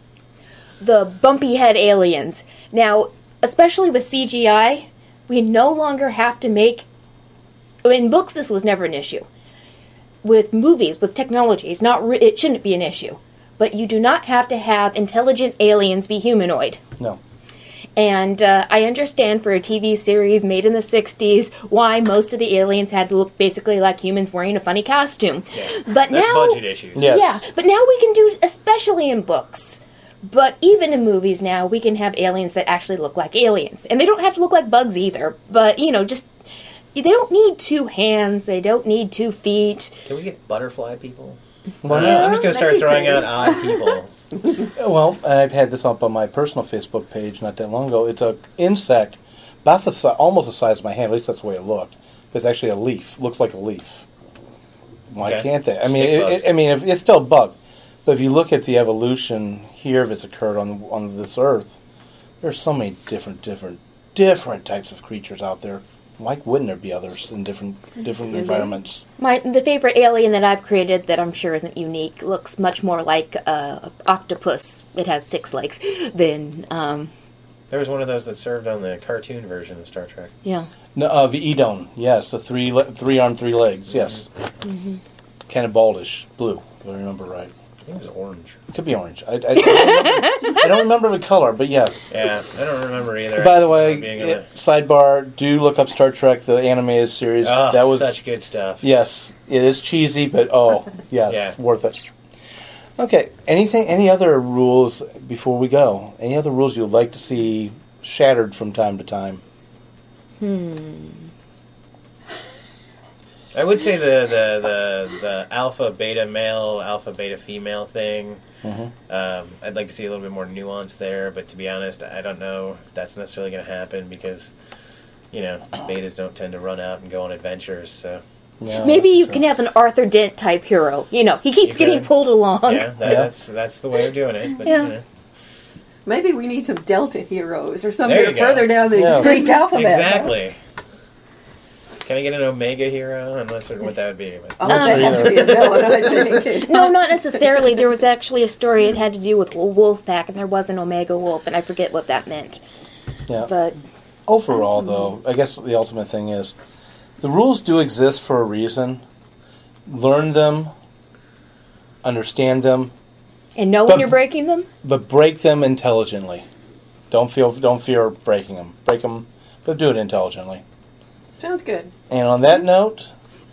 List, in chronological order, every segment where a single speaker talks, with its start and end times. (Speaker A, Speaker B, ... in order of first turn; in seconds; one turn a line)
Speaker A: 0.8-6.9
Speaker A: 7.8-9.3
Speaker A: 10.2-16.8
Speaker A: 18.0-36.3
Speaker B: 25.5-27.1
Speaker C: 27.0-27.4
Speaker A: 36.9-40.0
Speaker B: 40.0-41.4
Speaker C: 41.8-42.4
Speaker A: 41.9-43.5
Speaker B: 41.9-44.1
Speaker C: 44.8-54.0
Speaker C: 55.1-61.8
Speaker B: 55.2-56.5
Speaker C: 62.4-69.0
Speaker A: 69.2-77.1
Speaker B: 77.7-80.3
Speaker A: 80.5-80.7
Speaker C: 81.0-84.3
Speaker A: 84.7-85.0
Speaker C: 85.5-87.5
Speaker B: 87.8-88.6
Speaker C: 88.7-92.1
Speaker A: 90.1-90.5
Speaker B: 92.1-94.5
Speaker C: 93.4-98.1
Speaker B: 97.4-98.8
Speaker C: 98.8-102.1
Speaker B: 101.3-101.5
Speaker C: 103.0-109.4
Speaker A: 110.4-111.3
Speaker B: 113.5-118.4
Speaker C: 118.6-118.9
Speaker B: 119.1-124.5
Speaker B: 125.3-128.2
Speaker C: 128.6-129.4
Speaker A: 128.8-132.9
Speaker B: 131.6-132.1
Speaker B: 132.7-135.0
Speaker C: 133.0-133.3
Speaker A: 134.6-134.9
Speaker D: 136.1-140.3
Speaker B: 138.1-140.6
Speaker C: 138.9-139.4
Speaker B: 142.1-146.2
Speaker D: 144.6-146.9
Speaker C: 144.7-145.6
Speaker A: 144.7-145.1
Speaker A: 146.6-152.6
Speaker A: 153.4-153.8
Speaker C: 154.3-156.6
Speaker C: 157.2-159.0
Speaker C: 159.9-160.7
Speaker C: 162.0-162.9
Speaker A: 163.6-164.7
Speaker C: 163.9-164.1
Speaker C: 164.8-166.4
Speaker C: 167.1-170.6
Speaker D: 171.4-171.9
Speaker C: 172.1-173.1